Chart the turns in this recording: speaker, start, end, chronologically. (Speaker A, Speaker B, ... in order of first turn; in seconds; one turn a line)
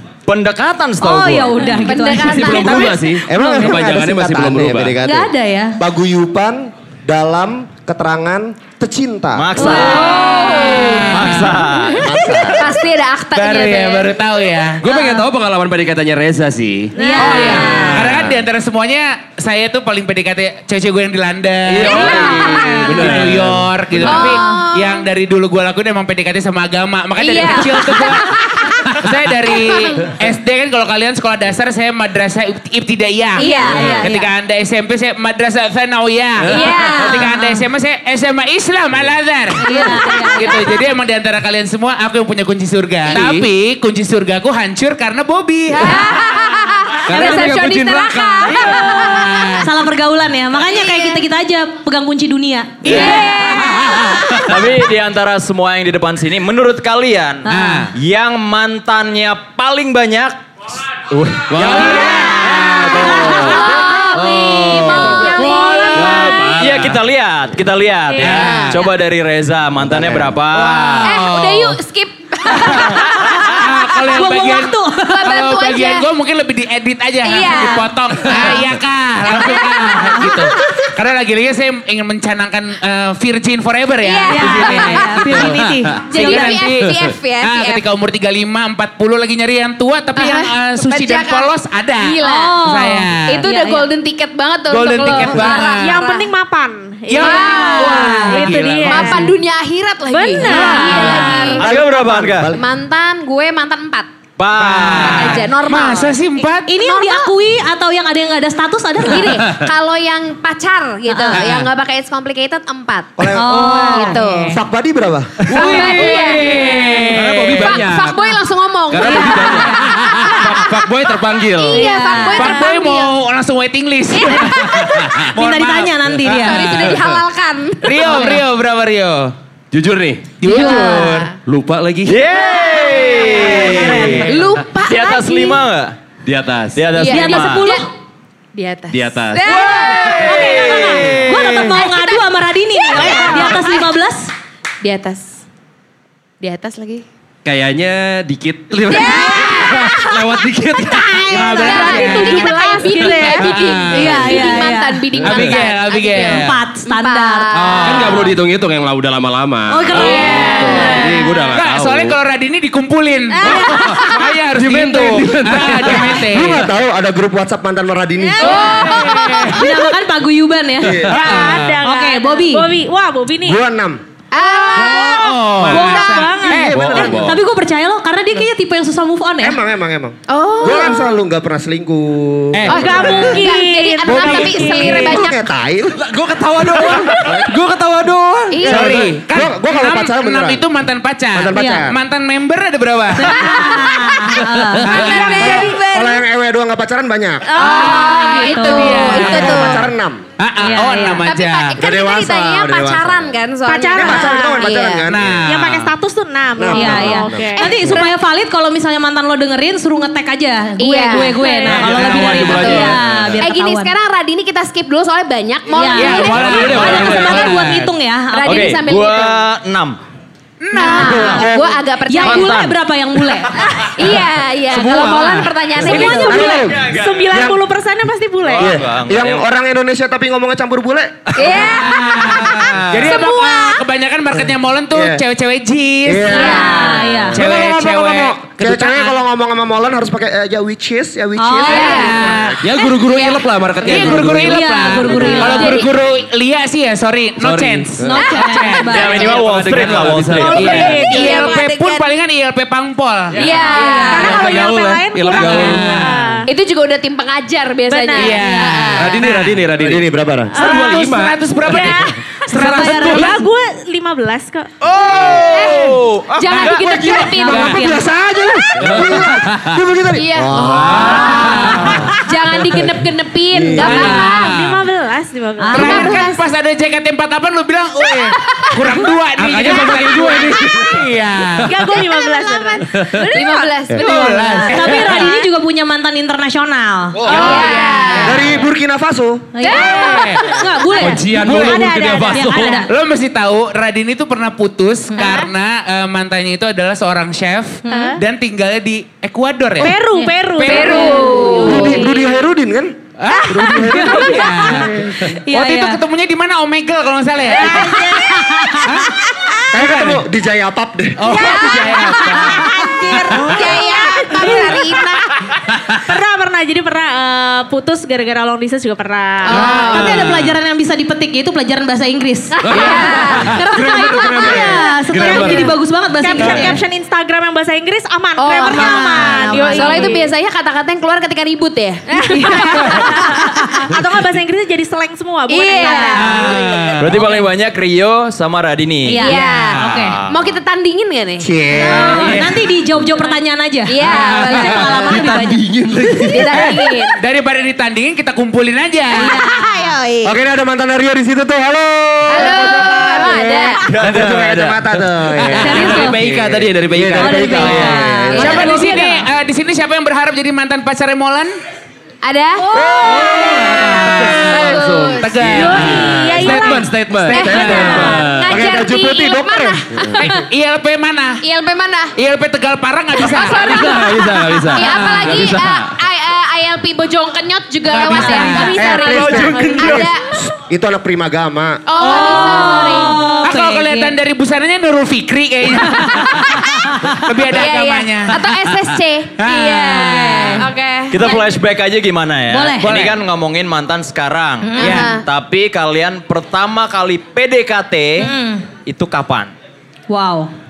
Speaker A: 0.3-1.7
Speaker B: 1.0-3.7
Speaker C: 1.6-3.1
Speaker D: 2.1-5.0
Speaker E: 3.2-9.6
Speaker B: 5.0-5.8
Speaker A: 9.3-10.2
Speaker B: 9.6-11.3
Speaker C: 9.6-11.3
Speaker F: 10.6-11.4
Speaker A: 11.1-12.1
Speaker E: 12.0-12.7
Speaker C: 12.5-14.2
Speaker F: 13.3-14.8
Speaker D: 14.8-16.9
Speaker B: 14.9-15.3
Speaker B: 16.9-18.0
Speaker C: 17.0-18.0
Speaker F: 17.2-39.6
Speaker D: 17.8-18.4
Speaker D: 21.7-24.3
Speaker B: 21.8-23.1
Speaker C: 21.9-22.8
Speaker C: 24.0-25.0
Speaker B: 24.1-24.6
Speaker C: 27.2-28.9
Speaker C: 29.5-30.0
Speaker C: 33.4-34.1
Speaker B: 33.4-34.3
Speaker D: 36.4-36.9
Speaker C: 36.5-37.3
Speaker B: 37.3-37.6
Speaker B: 39.6-40.6
Speaker C: 39.7-40.7
Speaker F: 40.3-46.2
Speaker D: 43.1-43.5
Speaker C: 45.8-49.7
Speaker D: 47.0-49.0
Speaker F: 48.5-49.7
Speaker B: 49.6-53.3
Speaker C: 50.6-51.2
Speaker C: 52.9-54.5
Speaker F: 52.9-53.3
Speaker A: 54.5-60.4
Speaker B: 57.5-57.9
Speaker F: 57.5-57.9
Speaker D: 61.3-67.0
Speaker F: 61.8-62.2
Speaker B: 61.9-64.1
Speaker C: 62.5-66.5
Speaker B: 64.7-65.3
Speaker F: 65.4-66.5
Speaker A: 66.6-70.9
Speaker F: 68.2-68.8
Speaker C: 68.2-68.7
Speaker D: 69.9-71.2
Speaker F: 70.5-71.8
Speaker C: 71.0-74.3
Speaker F: 72.5-85.5
Speaker B: 73.2-75.3
Speaker C: 75.1-76.1
Speaker C: 77.2-78.6
Speaker C: 79.3-79.9
Speaker B: 79.7-80.4
Speaker C: 84.0-85.5
Speaker B: 84.3-86.6
Speaker D: 85.3-86.0
Speaker C: 86.1-87.8
Speaker F: 86.1-93.4
Speaker C: 90.1-92.6
Speaker B: 92.2-93.9
Speaker C: 93.3-96.3
Speaker F: 94.7-96.1
Speaker G: 95.8-99.3
Speaker F: 97.1-99.4
Speaker C: 97.2-98.0
Speaker B: 97.2-98.5
Speaker C: 98.8-101.7
Speaker G: 100.1-101.5
Speaker F: 100.4-101.6
Speaker B: 100.5-101.6
Speaker A: 101.6-102.5
Speaker E: 101.6-102.6
Speaker C: 102.5-104.1
Speaker A: 104.4-105.4
Speaker F: 104.6-106.7
Speaker C: 105.0-107.3
Speaker B: 106.7-109.4
Speaker C: 109.0-114.5
Speaker D: 109.4-109.7
Speaker B: 111.1-111.5
Speaker D: 111.3-111.6
Speaker E: 113.2-115.5
Speaker B: 113.4-114.5
Speaker D: 115.5-118.4
Speaker C: 115.5-120.9
Speaker F: 115.5-117.7
Speaker D: 118.9-121.9
Speaker B: 119.0-119.9
Speaker C: 121.5-123.1
Speaker B: 121.7-122.7
Speaker F: 122.3-126.0
Speaker C: 124.1-125.2
Speaker B: 124.3-124.6
Speaker B: 125.3-126.9
Speaker C: 126.2-128.4
Speaker D: 126.3-127.2
Speaker F: 127.8-129.3
Speaker D: 129.7-130.4
Speaker F: 130.4-131.3
Speaker C: 130.4-131.4
Speaker B: 130.5-131.2
Speaker D: 131.5-132.2
Speaker A: 132.1-136.0
Speaker C: 132.4-135.6
Speaker F: 133.4-134.4
Speaker D: 133.8-134.3
Speaker D: 136.2-136.9
Speaker A: 136.8-137.7
Speaker C: 136.9-137.9
Speaker B: 137.0-137.9
Speaker C: 138.6-140.8
Speaker D: 138.9-139.5
Speaker A: 139.5-141.7
Speaker B: 139.5-144.3
Speaker C: 141.8-142.2
Speaker C: 142.8-143.9
Speaker C: 144.8-145.4
Speaker C: 146.4-147.1
Speaker D: 147.4-152.2
Speaker C: 148.8-158.1
Speaker F: 151.3-154.6
Speaker G: 151.4-153.8
Speaker B: 153.9-155.1
Speaker D: 155.2-155.6
Speaker F: 155.2-156.6
Speaker B: 156.2-158.0
Speaker F: 157.5-158.3
Speaker D: 157.8-162.2
Speaker B: 159.7-161.0
Speaker C: 159.9-161.3
Speaker F: 160.0-160.8
Speaker F: 161.5-166.6
Speaker C: 163.4-164.3
Speaker D: 163.4-166.3
Speaker E: 165.8-168.7
Speaker G: 168.2-169.6
Speaker C: 168.4-169.8
Speaker F: 168.7-169.5
Speaker B: 169.5-171.2
Speaker E: 170.8-171.3
Speaker F: 171.1-171.8
Speaker G: 171.1-173.6
Speaker B: 171.8-172.7
Speaker E: 173.4-174.0
Speaker C: 174.3-176.3
Speaker G: 174.5-176.8
Speaker F: 174.8-177.1
Speaker B: 175.7-179.6
Speaker E: 176.7-177.4
Speaker D: 176.7-177.4
Speaker E: 179.4-183.5
Speaker C: 180.3-181.1
Speaker F: 182.5-183.4
Speaker C: 182.7-185.4
Speaker G: 182.7-185.2
Speaker E: 184.0-186.0
Speaker D: 186.0-188.8
Speaker E: 186.8-187.5
Speaker C: 188.5-189.0
Speaker E: 188.6-190.7
Speaker F: 188.6-193.3
Speaker E: 191.3-192.0
Speaker B: 191.5-191.9
Speaker B: 193.2-195.1
Speaker C: 193.2-196.1
Speaker F: 194.8-195.7
Speaker G: 195.1-195.9
Speaker E: 195.4-197.5
Speaker G: 197.5-199.2
Speaker F: 197.6-199.9
Speaker C: 197.6-199.9
Speaker E: 199.1-200.2
Speaker F: 200.4-201.8
Speaker B: 200.6-201.2
Speaker C: 200.8-205.1
Speaker E: 201.8-203.3
Speaker G: 203.7-204.5
Speaker E: 203.9-205.4
Speaker F: 205.1-205.9
Speaker G: 205.5-207.8
Speaker E: 206.6-208.1
Speaker B: 206.7-213.9
Speaker C: 207.5-208.1
Speaker C: 210.8-211.6
Speaker G: 211.3-211.9
Speaker D: 211.7-213.5
Speaker F: 212.2-212.5
Speaker C: 212.4-217.6
Speaker B: 215.7-218.7
Speaker F: 215.9-217.9
Speaker D: 216.3-217.6
Speaker C: 218.3-219.4
Speaker A: 218.4-220.0
Speaker F: 220.6-221.2
Speaker C: 220.7-222.5
Speaker E: 220.8-221.8
Speaker B: 220.8-221.3
Speaker A: 221.1-221.5
Speaker B: 222.1-223.6
Speaker A: 222.2-222.8
Speaker C: 223.6-226.5
Speaker D: 224.7-225.5
Speaker B: 225.8-226.6
Speaker G: 225.9-228.8
Speaker E: 226.2-227.6
Speaker A: 226.6-227.3
Speaker A: 228.4-229.4
Speaker E: 228.6-231.5
Speaker C: 231.4-233.8
Speaker A: 231.4-231.7
Speaker F: 231.6-236.8
Speaker E: 234.9-235.2
Speaker E: 236.1-242.6
Speaker C: 236.3-237.0
Speaker B: 236.3-237.4
Speaker F: 237.3-239.2
Speaker B: 241.4-242.3
Speaker C: 241.6-244.2
Speaker F: 241.7-242.6
Speaker D: 242.6-245.9
Speaker F: 243.8-253.5
Speaker B: 244.4-245.9
Speaker C: 245.3-246.0
Speaker D: 247.4-248.3
Speaker B: 248.0-249.4
Speaker A: 248.8-250.8
Speaker D: 249.2-251.1
Speaker G: 250.3-252.0
Speaker C: 251.1-251.7
Speaker C: 253.3-254.5
Speaker B: 253.7-254.4
Speaker G: 253.7-256.5
Speaker D: 254.1-256.1
Speaker F: 255.3-256.4
Speaker C: 256.5-259.2
Speaker G: 257.9-258.5
Speaker F: 258.1-259.6
Speaker D: 258.9-263.4
Speaker E: 259.8-260.6
Speaker F: 260.5-263.4
Speaker G: 260.6-260.9
Speaker G: 261.6-264.7
Speaker B: 262.5-263.4
Speaker A: 264.8-266.6
Speaker E: 265.1-265.4
Speaker C: 265.3-268.0
Speaker F: 266.5-267.8
Speaker D: 266.5-266.8
Speaker E: 266.8-272.1
Speaker B: 267.0-268.1
Speaker D: 268.8-269.8
Speaker C: 270.1-274.5
Speaker D: 270.5-272.1
Speaker F: 271.0-272.1
Speaker E: 273.5-274.1
Speaker F: 273.8-274.9
Speaker G: 273.8-276.1
Speaker B: 275.6-276.3
Speaker C: 275.7-276.4
Speaker F: 275.7-281.7
Speaker D: 279.4-281.1
Speaker G: 281.7-283.7
Speaker C: 281.9-284.3
Speaker D: 282.9-283.3
Speaker B: 283.2-287.3
Speaker F: 284.0-285.3
Speaker F: 287.2-288.6
Speaker E: 287.3-287.6
Speaker C: 287.3-288.5
Speaker G: 287.4-288.1
Speaker E: 288.2-289.5
Speaker B: 289.6-292.9
Speaker C: 289.6-290.9
Speaker F: 289.7-290.5
Speaker D: 291.0-292.9
Speaker G: 291.3-292.6
Speaker F: 291.3-291.9
Speaker F: 292.9-301.6
Speaker B: 297.9-298.2
Speaker G: 297.9-298.1
Speaker G: 299.8-302.3
Speaker C: 300.7-302.1
Speaker B: 300.9-301.3
Speaker E: 301.6-305.0
Speaker F: 303.2-308.1
Speaker G: 303.4-304.5
Speaker B: 305.2-306.0
Speaker G: 307.5-308.4
Speaker C: 307.5-308.2
Speaker B: 308.2-308.9
Speaker F: 308.9-309.1
Speaker E: 309.7-311.3
Speaker F: 309.7-310.2
Speaker F: 311.2-312.7
Speaker C: 311.3-315.3
Speaker G: 311.3-314.9
Speaker F: 313.3-313.7
Speaker B: 314.4-314.7
Speaker G: 316.1-319.8
Speaker C: 319.5-320.2
Speaker B: 319.5-326.8
Speaker D: 319.8-320.5
Speaker C: 322.6-323.6
Speaker D: 322.6-325.7
Speaker G: 325.1-330.3
Speaker C: 328.4-333.3
Speaker B: 328.6-330.2
Speaker G: 332.1-336.6
Speaker B: 332.3-333.6
Speaker C: 335.5-336.6
Speaker B: 335.7-336.4
Speaker F: 336.2-337.2
Speaker A: 337.0-340.6
Speaker B: 337.2-337.4
Speaker B: 339.1-340.2
Speaker C: 339.2-342.4
Speaker E: 341.4-342.4
Speaker B: 341.8-345.6
Speaker C: 343.9-345.2
Speaker D: 344.1-346.9
Speaker C: 346.2-347.1
Speaker F: 347.2-349.3
Speaker C: 349.1-350.3
Speaker B: 349.1-349.6
Speaker E: 350.2-358.8
Speaker C: 352.3-353.9
Speaker D: 353.9-357.9
Speaker A: 354.0-354.3
Speaker B: 355.5-356.2
Speaker B: 357.1-359.3
Speaker C: 358.3-359.0
Speaker F: 358.4-361.5
Speaker C: 362.2-366.0
Speaker G: 362.6-363.5
Speaker D: 362.8-368.8
Speaker F: 363.4-368.1
Speaker G: 365.5-366.9
Speaker C: 367.3-370.4
Speaker E: 367.4-370.1
Speaker F: 370.2-371.4
Speaker C: 371.4-372.1
Speaker F: 372.2-374.0
Speaker C: 373.1-380.4
Speaker D: 373.5-376.0
Speaker F: 374.8-375.4
Speaker F: 377.9-379.6
Speaker G: 378.1-380.1
Speaker B: 378.1-378.8
Speaker E: 378.7-381.8
Speaker C: 381.9-383.3
Speaker B: 382.0-384.1
Speaker F: 382.2-382.9
Speaker F: 383.4-390.6
Speaker B: 385.8-387.3
Speaker C: 387.5-391.6
Speaker B: 389.9-390.7
Speaker A: 391.1-398.3
Speaker B: 392.5-392.9
Speaker F: 392.8-393.2
Speaker B: 394.6-395.1
Speaker C: 394.7-395.2
Speaker F: 394.8-395.1
Speaker B: 398.2-398.7
Speaker A: 398.9-399.5
Speaker B: 400.1-400.5